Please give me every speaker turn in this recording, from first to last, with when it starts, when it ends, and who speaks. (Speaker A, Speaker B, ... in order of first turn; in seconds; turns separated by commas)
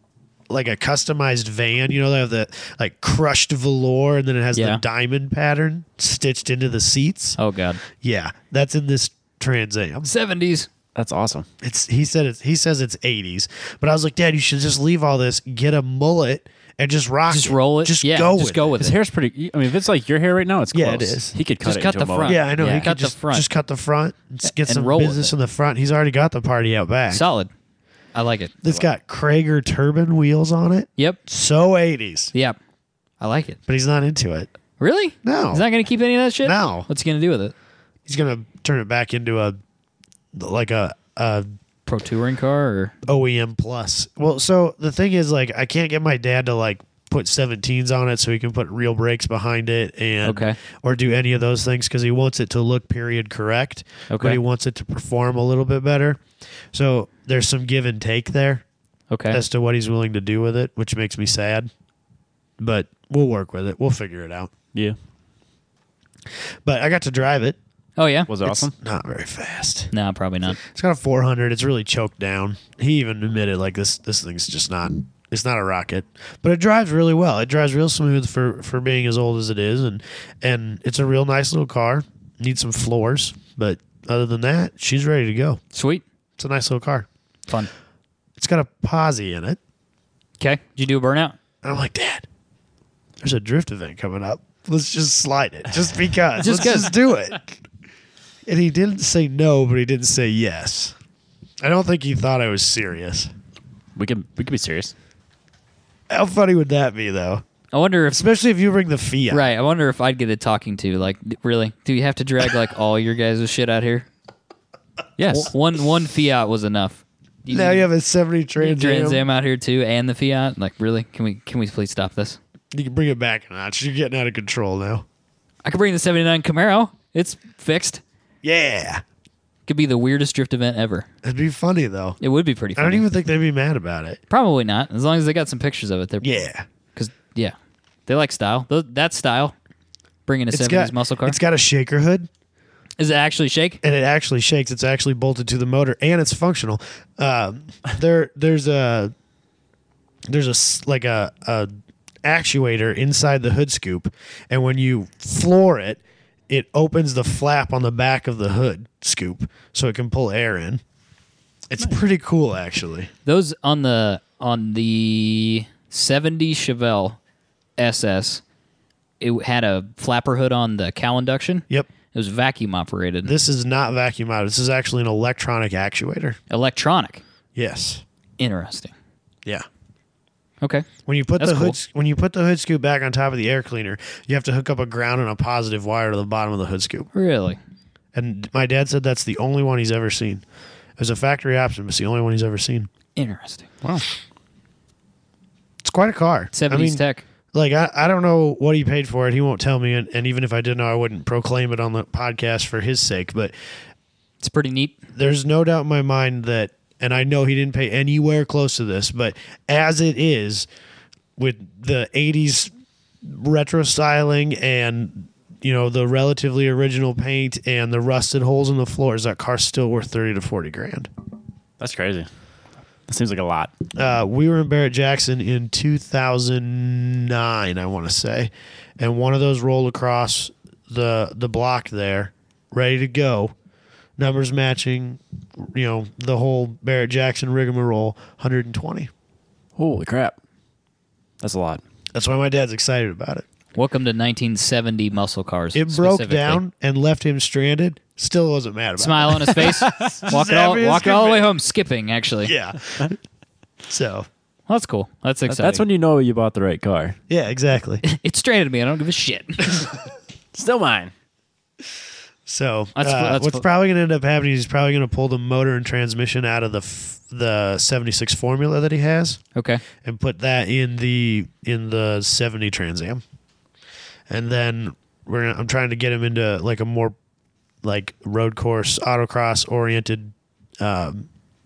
Speaker A: 0.5-7.4, Speaker B: 4.5-4.8, Speaker B: 7.4-7.8, Speaker A: 7.9-10.1, Speaker B: 10.0-10.7, Speaker C: 10.9-11.5, Speaker A: 11.6-18.7, Speaker B: 17.3-18.9, Speaker C: 18.8-22.4, Speaker A: 20.7-21.3, Speaker B: 21.6-23.4, Speaker A: 22.2-27.2, Speaker B: 24.4-25.3, Speaker B: 27.1-27.5, Speaker B: 28.1-28.6, Speaker A: 28.6-32.3, Speaker B: 33.2-33.6, Speaker A: 33.7-34.5, Speaker B: 34.8-37.5, Speaker A: 35.2-35.6, Speaker A: 36.4-36.9, Speaker A: 38.0-39.6, Speaker A: 40.3-41.5, Speaker B: 41.9-42.9, Speaker A: 43.0-56.2, Speaker B: 50.2-50.6, Speaker B: 54.1-54.4, Speaker A: 56.7-58.6, Speaker B: 59.1-59.4, Speaker A: 59.3-61.7, Speaker A: 62.6-64.5, Speaker A: 66.6-67.6, Speaker B: 68.0-68.3, Speaker C: 68.3-68.7, Speaker A: 68.4-69.9, Speaker B: 69.9-70.6, Speaker A: 70.5-85.6, Speaker B: 85.7-86.0, Speaker A: 86.4-87.1, Speaker A: 88.4-89.6, Speaker B: 90.4-91.3, Speaker A: 91.6-92.2, Speaker A: 93.2-97.6, Speaker B: 96.4-97.0, Speaker A: 98.5-101.0, Speaker A: 101.6-103.3, Speaker C: 104.0-104.9, Speaker A: 106.1-107.4, Speaker B: 107.7-108.2, Speaker A: 108.1-109.5, Speaker B: 109.3-114.1, Speaker C: 115.2-115.5, Speaker B: 115.3-117.8, Speaker A: 117.5-119.2, Speaker B: 118.6-122.4, Speaker A: 122.7-125.0, Speaker B: 125.6-128.0, Speaker A: 128.4-129.0, Speaker B: 129.7-131.1, Speaker A: 131.2-132.2, Speaker B: 132.2-133.0, Speaker A: 132.8-134.2, Speaker B: 134.3-136.4, Speaker A: 136.2-136.6, Speaker B: 136.9-137.5, Speaker B: 138.1-139.5, Speaker B: 140.2-141.4, Speaker A: 140.5-142.3, Speaker B: 143.0-143.8, Speaker A: 143.8-149.1, Speaker A: 150.3-151.7, Speaker A: 152.2-160.8, Speaker A: 161.7-163.1, Speaker B: 163.2-167.2, Speaker B: 167.8-168.4, Speaker B: 169.2-173.3, Speaker A: 173.2-176.4, Speaker B: 176.5-177.2, Speaker A: 177.5-178.0, Speaker B: 178.4-178.9, Speaker B: 180.6-180.9, Speaker A: 181.1-187.1, Speaker B: 181.4-181.8, Speaker B: 187.1-187.6, Speaker A: 188.1-190.4, Speaker A: 191.0-192.9, Speaker B: 193.2-193.7, Speaker A: 195.8-197.0, Speaker B: 196.5-197.2, Speaker A: 197.5-203.5, Speaker B: 204.4-205.0, Speaker A: 205.1-210.7, Speaker A: 211.4-212.7, Speaker A: 213.2-221.1, Speaker C: 221.8-222.3, Speaker C: 223.1-223.7, Speaker A: 223.9-233.5, Speaker A: 234.2-239.1, Speaker C: 239.8-240.3, Speaker C: 241.4-241.8, Speaker A: 242.1-243.4, Speaker B: 243.8-246.6, Speaker A: 245.7-251.5, Speaker B: 249.0-252.5, Speaker C: 249.8-250.2, Speaker A: 252.4-253.2, Speaker A: 253.9-254.3, Speaker B: 254.7-255.8, Speaker C: 255.5-257.2, Speaker A: 257.3-258.0, Speaker B: 258.0-259.8, Speaker C: 260.5-261.1, Speaker A: 262.4-269.4, Speaker B: 262.9-263.6, Speaker B: 269.5-269.8, Speaker A: 270.0-273.2, Speaker A: 274.3-277.1, Speaker A: 277.8-281.3